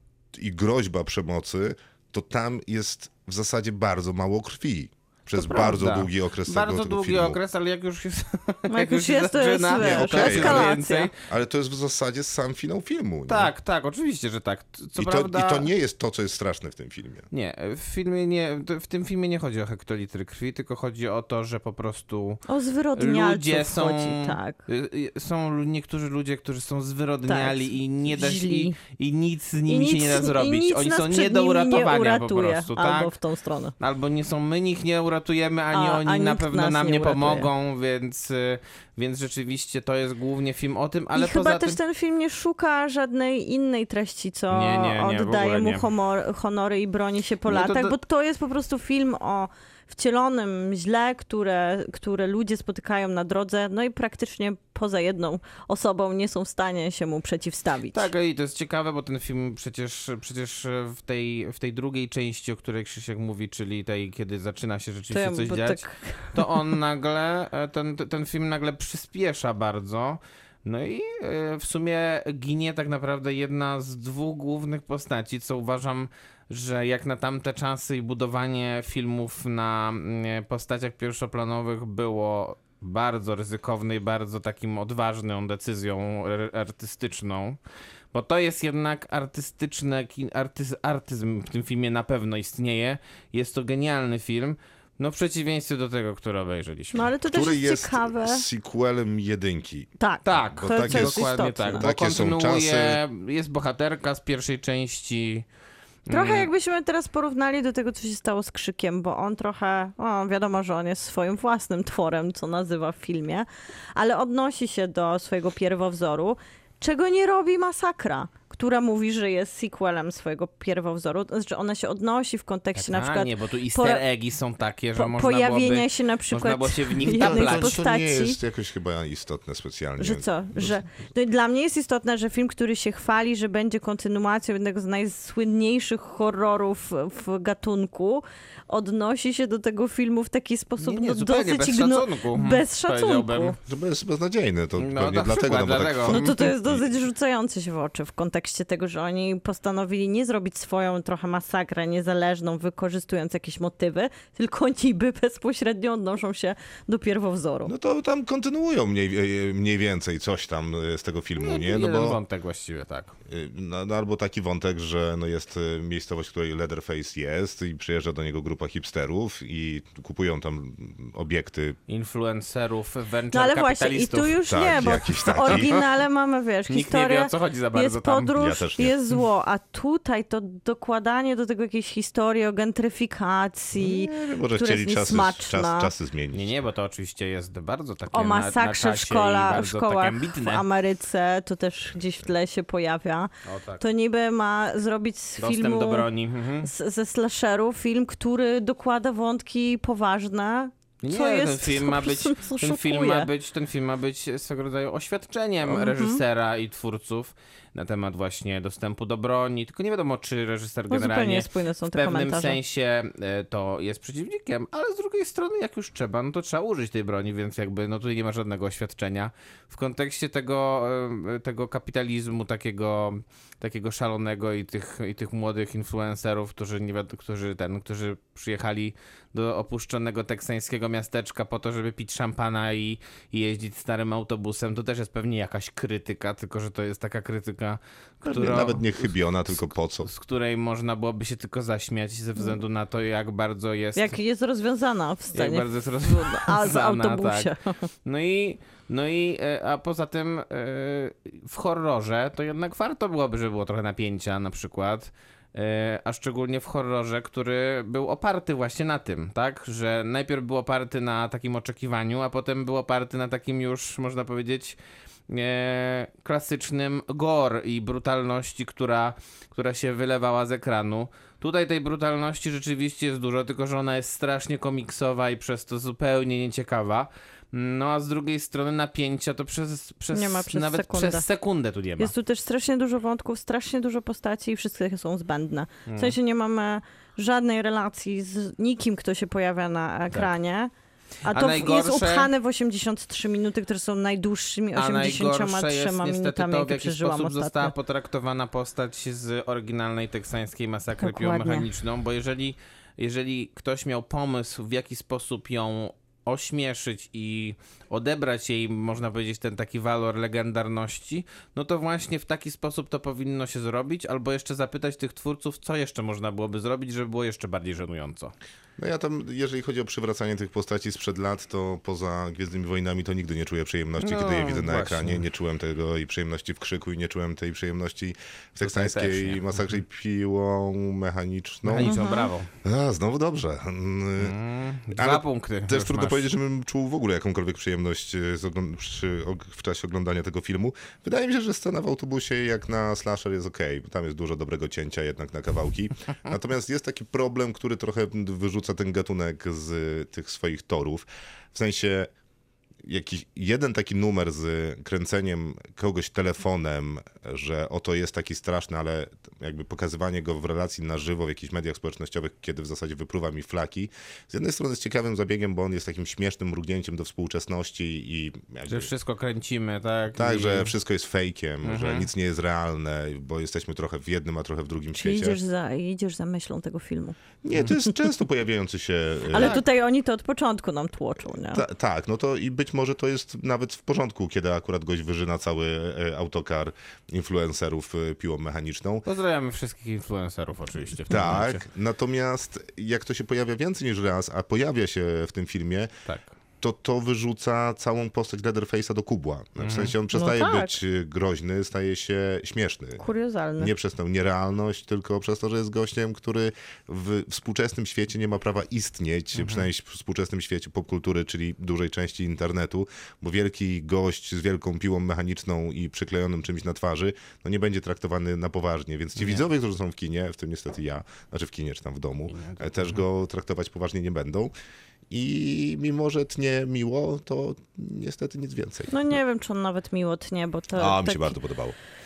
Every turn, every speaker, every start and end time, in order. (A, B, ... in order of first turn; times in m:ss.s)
0:00.3-0:07.4 A
0:05.3-0:11.1 B
0:08.7-0:11.1 C
0:09.8-0:10.7 A
0:11.3-0:13.5 A
0:13.3-0:15.7 B
0:15.0-0:17.3 A
0:17.3-0:22.4 B
0:22.5-0:24.6 C
0:23.0-0:33.1 B
0:27.3-0:28.8 C
0:29.7-0:33.7 C
0:33.8-0:41.8 B
0:35.7-0:37.5 C
0:41.2-0:58.1 C
0:44.5-0:45.9 B
0:47.5-0:48.0 B
0:57.9-1:27.6 B
1:05.1-1:06.5 C
1:28.1-1:37.0 B
1:36.9-1:38.4 C
1:37.2-1:39.9 A
1:40.0-1:41.9 C
1:40.2-1:45.4 B
1:40.6-1:43.0 A
1:46.1-1:46.5 B
1:46.1-2:04.0 C
2:02.8-2:07.8 B
2:05.0-2:08.4 C
2:07.0-2:10.8 A
2:10.0-2:23.6 C
2:20.8-2:23.6 B
2:23.7-2:26.8 A
2:24.8-2:26.5 B
2:26.1-2:37.7 C
2:37.7-2:42.2 A
2:41.4-2:43.2 B
2:43.3-2:51.8 A
2:51.9-2:54.4 B
2:53.3-3:05.9 C
2:54.5-2:55.8 A
2:55.4-2:55.7 B
2:56.7-2:58.3 B
2:58.4-2:58.9 A
3:03.8-3:06.5 A
3:06.3-3:10.6 B
3:08.1-3:16.1 C
3:13.4-3:13.8 B
3:15.4-3:16.7 B
3:16.6-3:23.3 C
3:21.0-3:59.1 B
3:25.7-3:26.2 C
3:30.9-3:32.6 C
3:58.2-4:00.1 A
4:00.0-4:04.2 B
4:04.0-4:07.8 C
4:05.3-4:07.5 B
4:08.1-4:24.8 B
4:25.3-4:42.1 B
4:40.1-4:41.2 C
4:42.0-4:50.7 C
4:45.9-4:46.2 B
4:51.2-4:57.7 C
4:51.3-4:52.3 B
4:54.8-5:18.3 B
5:01.0-5:01.7 C
5:18.8-5:32.0 A
5:24.0-5:25.2 B
5:28.6-5:29.7 B
5:31.6-5:32.5 B
5:31.8-5:32.3 C
5:32.6-5:34.4 A
5:34.2-5:36.3 B
5:34.9-5:52.1 A
5:52.8-6:08.9 A
6:08.7-6:10.7 B
6:10.2-6:15.4 A
6:11.6-6:12.1 B
6:15.0-6:17.2 C
6:17.4-6:19.6 A
6:19.3-6:21.6 C
6:19.3-6:19.6 B
6:21.5-6:29.0 A
6:29.0-6:31.6 B
6:31.1-6:35.9 A
6:36.0-6:36.3 B
6:36.6-6:43.0 A
6:39.6-6:39.9 B
6:40.1-6:40.8 C
6:43.0-6:43.7 C
6:43.6-7:04.5 A
6:49.4-6:49.7 B
6:59.2-6:59.4 B
7:02.3-7:03.0 B
7:05.1-7:08.9 A
7:08.9-7:11.4 C
7:10.8-7:11.8 A